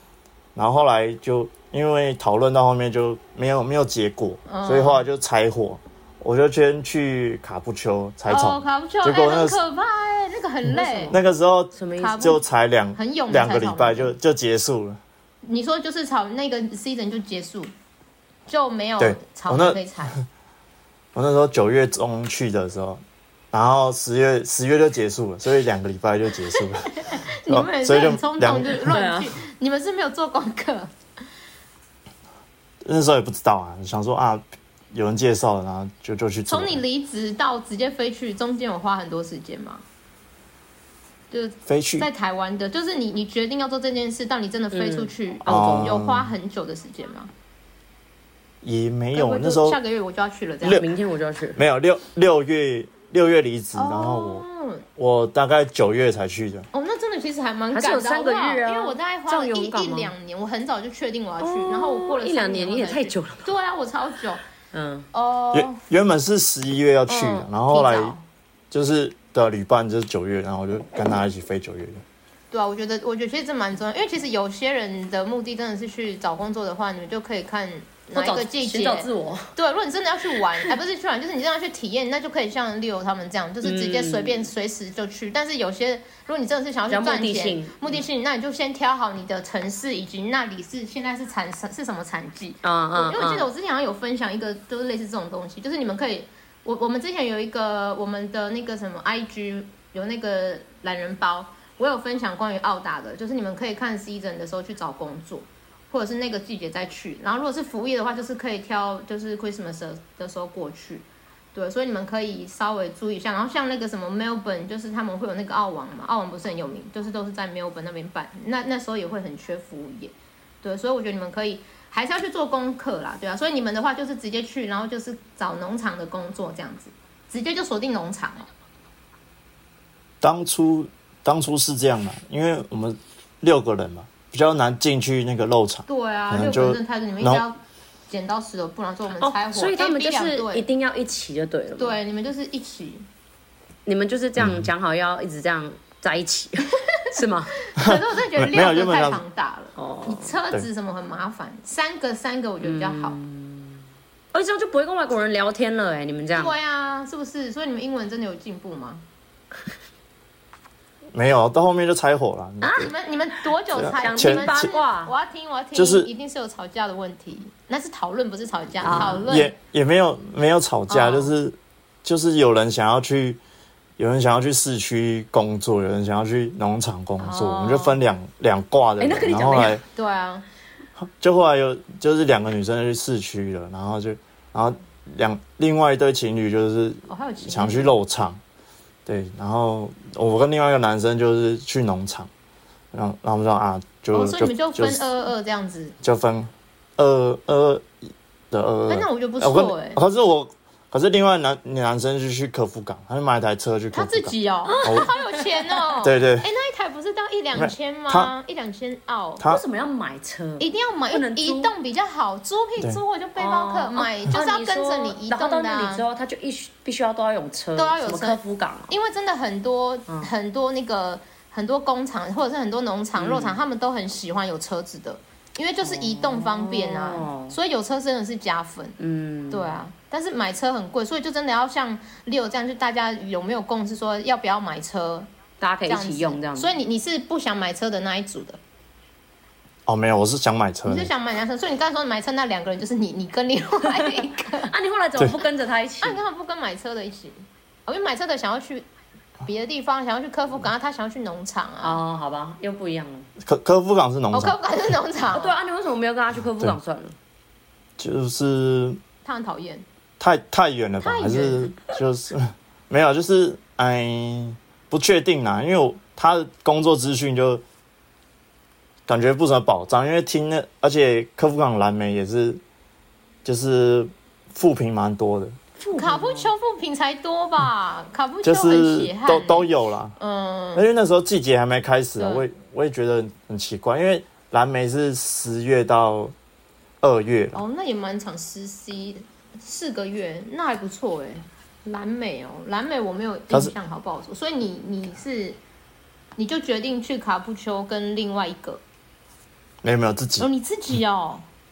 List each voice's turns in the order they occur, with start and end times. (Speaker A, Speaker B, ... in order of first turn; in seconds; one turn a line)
Speaker A: 0.5-9.6
Speaker B: 4.5-5.0
Speaker B: 8.3-11.2
Speaker A: 10.7-15.0
Speaker C: 11.8-12.2
Speaker B: 12.0-12.4
Speaker B: 12.9-14.1
Speaker B: 15.4-17.7
Speaker B: 18.5-20.2
Speaker A: 19.0-20.2
Speaker A: 21.1-28.9
Speaker B: 26.6-30.9
Speaker C: 28.9-29.3
Speaker A: 32.8-36.8
Speaker B: 36.5-39.8
Speaker B: 41.3-47.3
Speaker A: 41.7-42.1
Speaker C: 44.7-45.7
Speaker A: 45.4-46.3
Speaker A: 48.6-49.8
Speaker B: 49.1-50.9
Speaker C: 50.6-51.6
Speaker A: 51.5-54.4
Speaker B: 53.8-54.9
Speaker A: 55.0-56.7
Speaker B: 56.7-64.4
Speaker C: 57.7-60.1
Speaker C: 61.4-63.5
Speaker C: 64.7-65.1
Speaker B: 65.1-65.8
Speaker A: 65.5-68.2
Speaker B: 67.1-68.2
Speaker A: 68.7-72.0
Speaker B: 72.5-128.5
Speaker C: 78.1-79.5
Speaker C: 83.6-84.5
Speaker C: 86.9-88.0
Speaker C: 92.6-93.5
Speaker A: 130.2-137.4
Speaker B: 135.9-137.6
Speaker B: 138.1-140.6
Speaker C: 139.2-142.0
Speaker B: 141.8-143.0
Speaker C: 143.8-147.5
Speaker A: 144.4-144.7
Speaker B: 146.9-153.2
Speaker A: 147.8-149.2
Speaker C: 149.8-150.4
Speaker C: 152.6-153.8
Speaker C: 154.3-156.5
Speaker B: 156.3-159.0
Speaker A: 161.1-162.9
Speaker C: 162.6-165.1
Speaker B: 162.8-169.5
Speaker A: 163.7-164.7
Speaker A: 165.7-166.1
Speaker C: 168.8-169.2
Speaker A: 168.9-173.4
Speaker B: 170.9-171.3
Speaker A: 174.0-179.8
Speaker B: 177.2-178.0
Speaker C: 179.0-179.8
Speaker B: 179.9-180.4
Speaker A: 181.0-188.4
Speaker B: 187.1-187.9
Speaker A: 189.1-192.3
Speaker A: 192.9-195.1
Speaker B: 194.1-195.9
Speaker A: 196.0-205.1
Speaker B: 198.9-200.0
Speaker B: 203.9-209.4
Speaker C: 204.7-205.9
Speaker A: 206.0-206.5
Speaker A: 207.6-208.3
Speaker C: 209.4-211.7
Speaker B: 210.6-216.0
Speaker C: 213.4-218.9
Speaker B: 217.8-228.9
Speaker C: 223.2-223.6
Speaker C: 225.8-227.6
Speaker C: 229.0-229.8
Speaker B: 229.5-235.3
Speaker C: 235.6-236.7
Speaker B: 235.8-238.6
Speaker A: 239.8-241.1
Speaker B: 240.8-244.7
Speaker C: 244.0-246.2
Speaker B: 246.0-248.8
Speaker B: 249.4-252.0
Speaker C: 251.8-253.3
Speaker A: 253.4-254.6
Speaker B: 254.3-255.5
Speaker C: 255.3-257.1
Speaker A: 258.0-259.0
Speaker B: 259.2-259.8
Speaker A: 260.2-267.6
Speaker B: 261.0-261.7
Speaker A: 269.1-272.6
Speaker A: 273.4-275.6
Speaker C: 275.8-276.5
Speaker B: 275.9-280.8
Speaker A: 278.4-280.2
Speaker A: 280.7-286.3
Speaker B: 282.2-282.4
Speaker A: 287.0-287.6
Speaker B: 287.5-295.6
Speaker B: 296.4-298.8
Speaker A: 299.8-300.5
Speaker B: 300.4-301.4